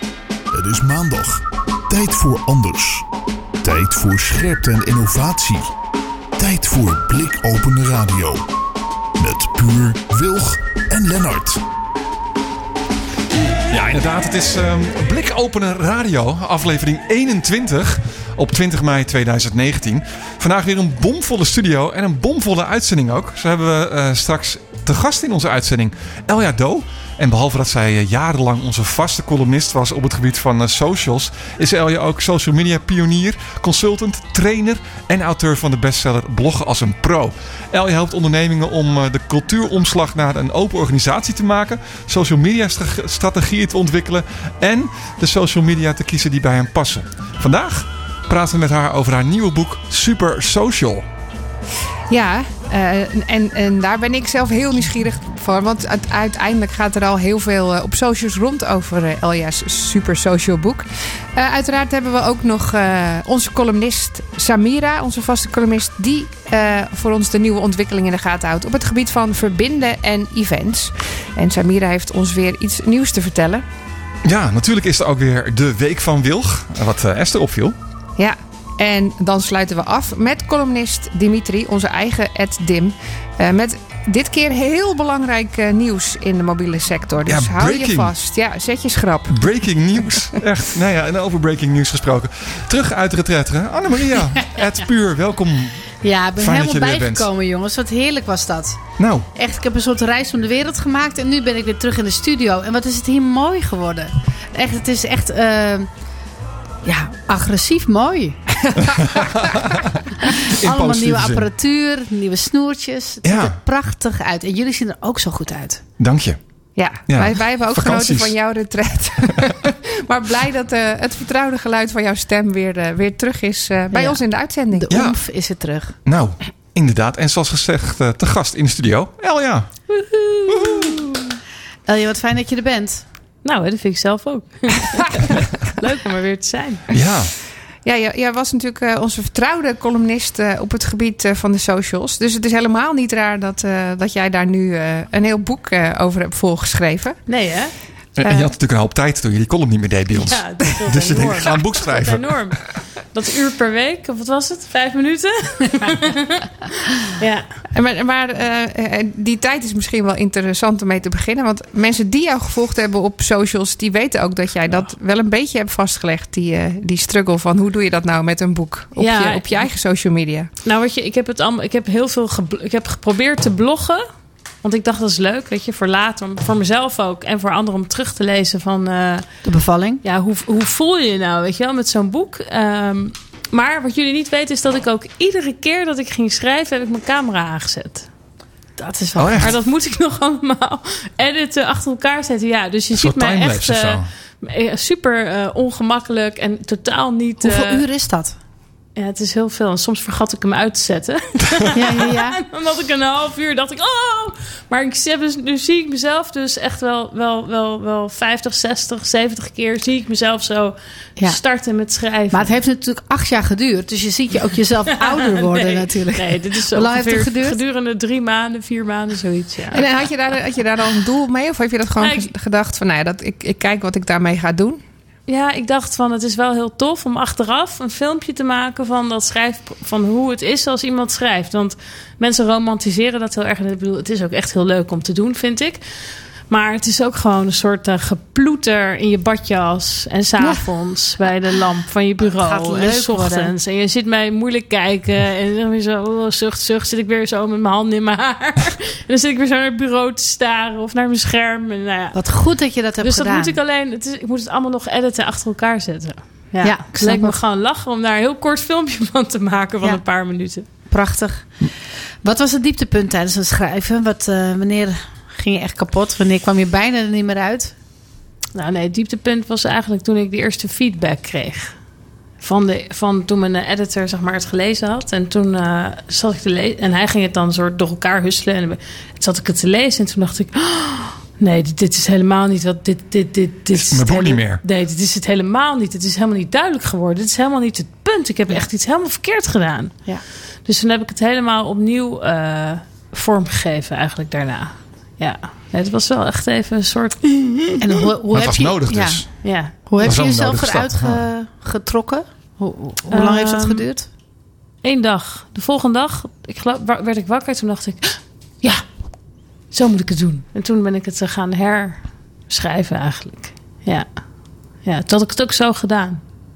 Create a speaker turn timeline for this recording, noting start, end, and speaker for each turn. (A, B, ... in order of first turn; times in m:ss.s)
0:00.5-0:03.1 A
0:03.6-0:05.7 A
0:06.4-0:08.4 A
0:09.2-0:11.6 A
0:13.7-0:51.0 B
0:52.1-1:13.6 C
1:14.2-1:17.8 B
1:18.2-1:29.5 C
1:27.2-1:28.1 B
1:29.3-1:37.2 B
1:36.0-1:38.8 D
1:39.0-1:39.3 B
1:39.3-1:45.9 D
1:46.8-1:48.4 D
1:48.7-1:49.0 C
1:49.5-1:49.9 B
1:50.2-1:55.8 D
1:50.4-1:51.5 B
1:53.2-1:53.6 B
1:56.0-1:56.4 B
1:56.8-2:04.9 C
1:57.1-1:58.4 B
2:03.9-2:06.0 D
2:04.9-2:05.2 B
2:06.0-2:09.9 B
2:09.9-2:11.2 E
2:10.5-2:10.9 B
2:11.8-2:13.0 D
2:13.4-2:16.8 E
2:16.9-2:17.3 B
2:17.8-2:27.2 C
2:27.3-2:27.7 E
2:28.2-2:32.6 B
2:28.2-2:28.5 C
2:30.2-2:36.5 E
2:37.0-2:37.5 E
2:37.7-2:50.5 C
2:49.0-2:49.7 E
2:50.6-2:54.0 E
2:54.6-2:59.4 E
2:59.4-3:00.0 D
3:00.0-3:08.1 E
3:08.8-3:09.5 D
3:09.2-3:09.5 B
3:09.4-3:17.8 E
3:12.9-3:14.1 B
3:17.4-3:18.4 D
3:19.0-3:32.5 E
3:21.7-3:22.4 D
3:32.3-3:37.6 D
3:35.1-3:39.8 E
3:39.7-3:44.8 C
3:42.0-3:42.3 E
3:45.3-3:55.8 E
3:56.5-4:12.2 E
4:00.4-4:00.7 D
4:02.2-4:03.5 D
4:12.1-4:13.6 D
4:13.0-4:20.7 E
4:16.6-4:17.4 D
4:20.8-4:21.7 D
4:22.2-4:27.7 D
4:28.5-4:31.7 E
4:32.4-4:50.1 E
4:43.7-4:44.6 B
4:50.6-4:57.8 E
4:57.8-5:04.1 D
4:58.3-5:01.2 B
4:59.4-5:00.2 E
5:03.1-5:03.8 E
5:04.8-5:08.8 E
5:09.7-5:14.2 E
5:14.8-5:16.2 E